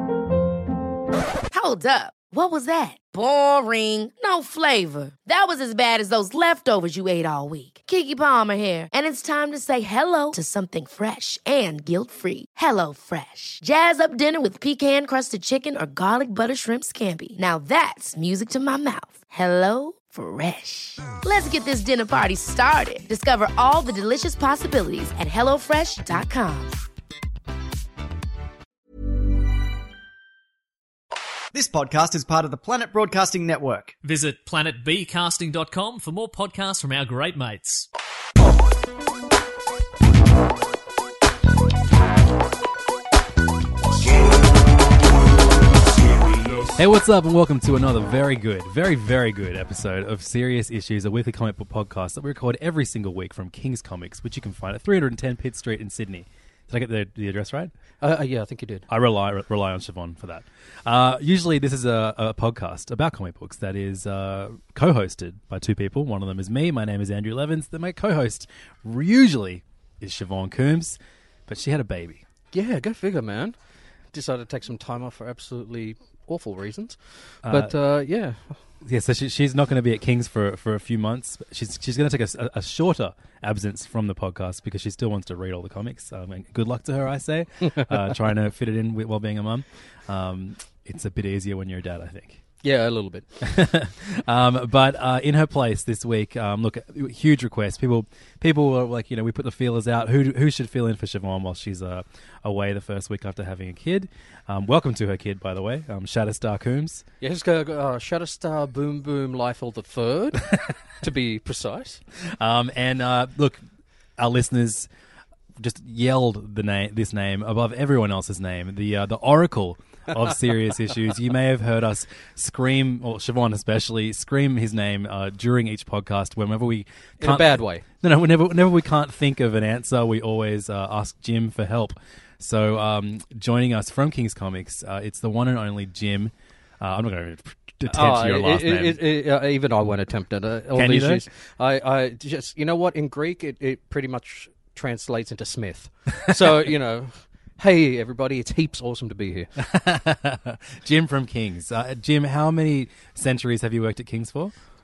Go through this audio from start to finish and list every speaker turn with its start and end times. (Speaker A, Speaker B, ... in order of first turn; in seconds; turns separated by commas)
Speaker A: 1.5-26.8, Speaker B: 31.5-33.9, Speaker C: 34.0-37.9, Speaker D: 46.7-57.7, Speaker E: 58.0-58.9, Speaker D: 58.9-72.2, Speaker E: 72.5-73.6, Speaker E: 74.1-78.6, Speaker D: 77.4-77.7, Speaker D: 78.8-92.4, Speaker E: 87.6-88.0, Speaker E: 92.6-93.3, Speaker D: 93.4-107.0, Speaker E: 107.2-112.0, Speaker D: 112.2-113.6, Speaker D: 114.2-114.9, Speaker D: 115.6-139.0, Speaker E: 127.2-127.8, Speaker E: 137.9-149.5, Speaker D: 140.7-141.3, Speaker D: 149.6-154.5